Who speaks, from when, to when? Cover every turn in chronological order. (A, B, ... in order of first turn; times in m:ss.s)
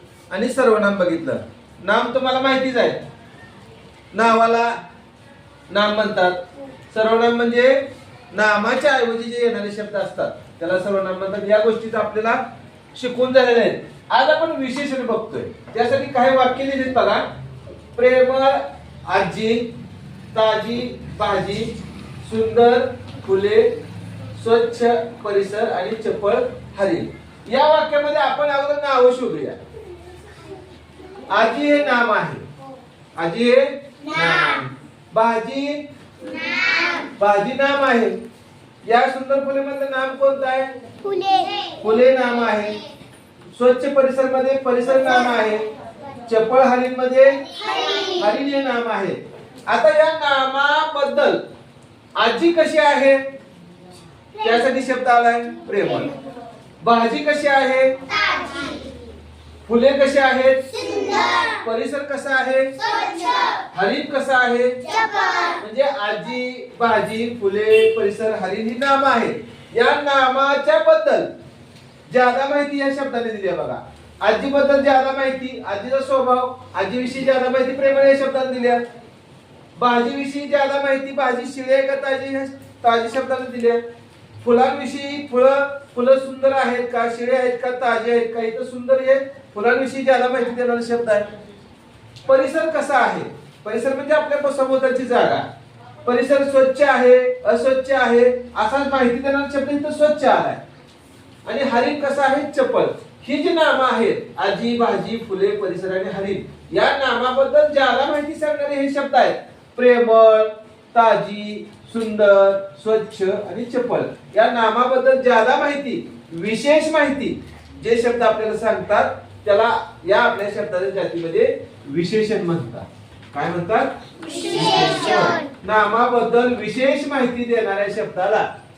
0:00.3-0:03.0 A
0:04.1-0:04.7 A
0:05.7-0:06.4 A
0:06.9-0:07.8 A
0:08.3-0:12.4 A
0:12.9-0:17.3 A
0:17.9-0:19.7 A
0:20.3-0:21.7 A
0:22.2-0:23.7 A
0:24.4-0:29.6 A
0:31.3-0:32.4 A
0:33.2-0:35.8 A
0:36.2-0:37.1 B
0:37.2-0:38.2 A
0:38.8-0:40.7 A
0:41.0-0:41.8 B
0:41.8-0:42.8 A
0:43.5-0:45.7 A
0:46.3-0:51.4 A
0:47.6-0:48.2 B
0:52.2-0:53.2 A
0:54.4-0:56.1 A
0:56.8-0:57.9 A
0:58.1-0:58.9 B
0:59.7-1:02.8 A
1:00.8-1:01.6 B
1:02.8-1:03.6 B
1:03.7-1:04.8 A
1:04.8-1:05.6 B
1:05.6-1:11.3 A
1:12.1-1:18.8 A
1:19.8-1:23.8 A
1:24.4-1:31.3 A
1:32.3-1:35.4 A
1:36.0-1:40.6 A
1:41.5-2:08.5 A
2:04.2-2:05.4 B